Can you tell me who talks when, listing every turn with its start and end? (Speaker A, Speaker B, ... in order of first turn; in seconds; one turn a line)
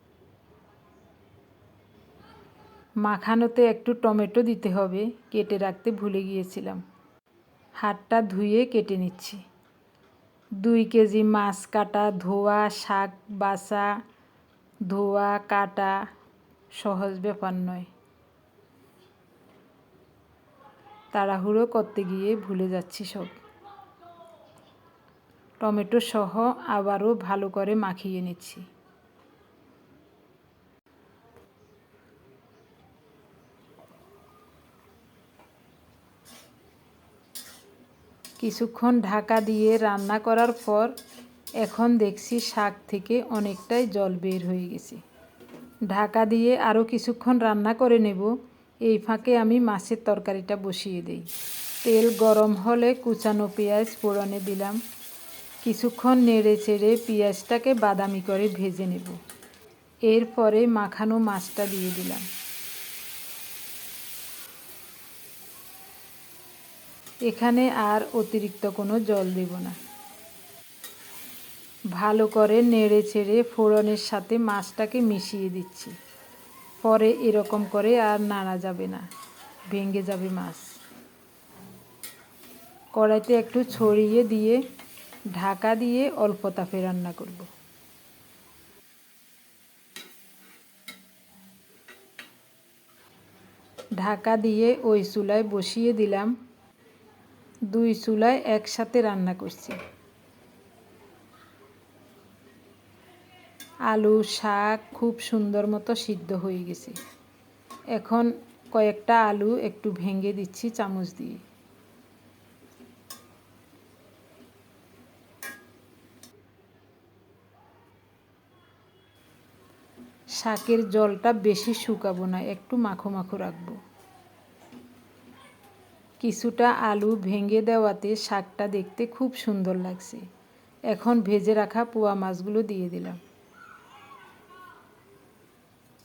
Speaker A: 3.0-6.8
Speaker A: 7.8-9.4
Speaker A: 10.6-14.0
Speaker A: 14.8-16.0
Speaker A: 16.8-17.9
Speaker A: 21.1-23.4
Speaker A: 25.6-28.7
Speaker A: 38.4-41.0
Speaker A: 41.6-45.0
Speaker A: 45.9-51.3
Speaker A: 51.8-54.8
Speaker A: 55.6-59.2
Speaker A: 60.0-62.3
Speaker A: 67.2-69.8
Speaker A: 71.9-76.0
Speaker A: 76.8-79.1
Speaker A: 79.7-80.8
Speaker A: 82.9-84.6
Speaker A: 85.3-87.5
Speaker A: 94.0-96.3
Speaker A: 97.7-99.8
Speaker A: 103.9-107.0
Speaker A: 107.9-111.4
Speaker A: 120.3-123.8
Speaker A: 126.2-130.2
Speaker A: 130.9-133.2